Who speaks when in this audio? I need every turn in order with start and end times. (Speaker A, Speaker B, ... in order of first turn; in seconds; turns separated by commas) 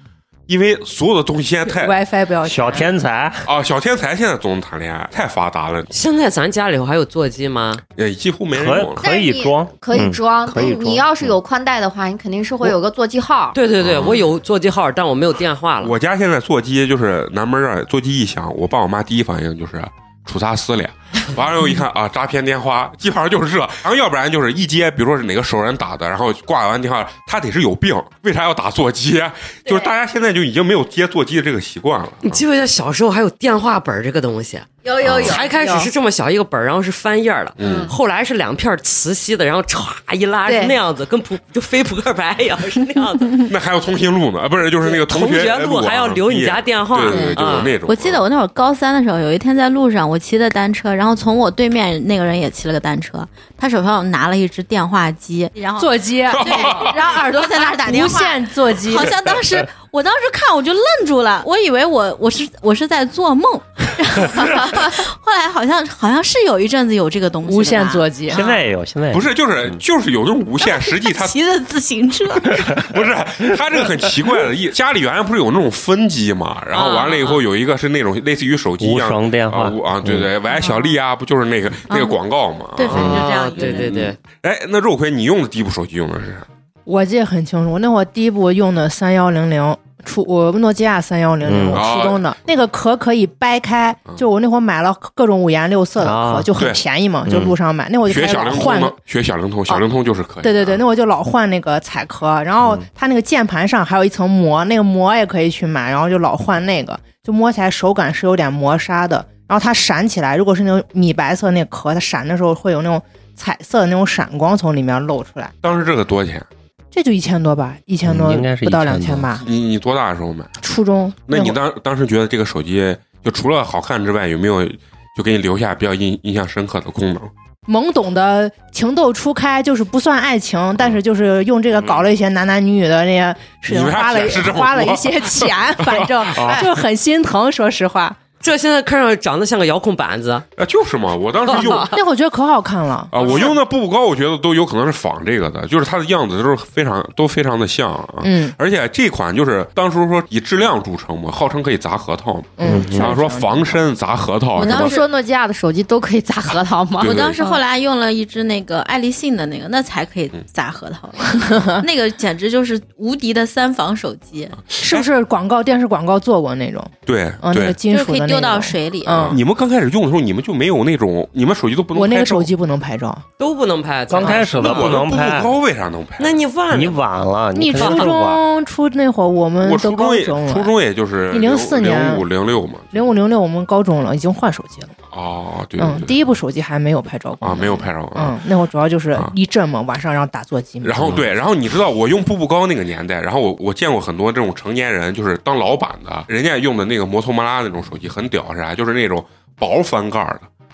Speaker A: 0.5-1.9, Speaker B: 1.7-2.9, Speaker C: 2.4-3.5, Speaker A: 3.4-5.9, Speaker D: 5.9-7.8, Speaker A: 8.0-9.0, Speaker C: 8.5-11.3, Speaker E: 9.0-13.6, Speaker D: 13.5-15.9, Speaker A: 13.8-14.2, Speaker A: 15.8-32.4, Speaker E: 29.7-29.9, Speaker D: 32.2-43.5, Speaker E: 34.8-35.9, Speaker A: 35.0-35.4, Speaker A: 37.6-37.9, Speaker E: 37.6-37.9, Speaker E: 40.5-40.8, Speaker A: 43.4-48.2, Speaker D: 44.8-47.7, Speaker F: 47.9-68.6, Speaker B: 55.8-59.1, Speaker A: 56.3-57.0, Speaker B: 67.5-68.4, Speaker C: 68.3-69.8, Speaker A: 69.1-71.4, Speaker F: 70.6-72.7, Speaker C: 72.5-72.9, Speaker A: 72.5-86.5, Speaker D: 76.7-77.4, Speaker C: 78.8-80.3, Speaker F: 81.9-82.2, Speaker F: 82.8-84.0, Speaker D: 82.8-84.2, Speaker B: 86.8-99.0, Speaker C: 91.4-91.8, Speaker A: 91.7-92.2, Speaker C: 96.0-96.5, Speaker A: 96.6-96.8, Speaker C: 97.3-97.5, Speaker A: 98.1-100.8, Speaker B: 100.4-115.5, Speaker A: 115.6-116.5, Speaker B: 116.9-119.4, Speaker C: 118.0-119.4, Speaker A: 119.4-120.6, Speaker B: 120.6-121.6, Speaker A: 121.3-127.3, Speaker B: 127.7-138.2, Speaker A: 131.8-132.0, Speaker A: 133.7-136.7, Speaker D: 138.4-140.4, Speaker A: 140.6-141.9, Speaker D: 141.5-141.8, Speaker B: 141.7-143.1, Speaker A: 143.1-155.0, Speaker D: 143.1-143.5, Speaker B: 148.2-148.6, Speaker B: 152.6-153.8, Speaker C: 152.6-153.1, Speaker E: 154.6-157.2, Speaker A: 157.0-157.4, Speaker F: 157.0-164.6, Speaker B: 161.4-161.8, Speaker B: 164.8-169.4, Speaker A: 164.8-165.1, Speaker A: 167.1-167.8, Speaker F: 167.9-169.4, Speaker A: 169.2-172.5, Speaker B: 171.9-173.2, Speaker D: 173.4-175.0, Speaker C: 174.1-175.5, Speaker A: 174.5-176.4, Speaker D: 176.2-177.0, Speaker C: 176.7-178.4, Speaker B: 177.5-180.7, Speaker D: 177.8-178.1, Speaker A: 179.6-183.1, Speaker B: 181.3-182.2, Speaker B: 182.9-184.9, Speaker A: 185.1-186.2, Speaker B: 185.8-191.2, Speaker A: 187.4-188.4, Speaker A: 190.8-200.5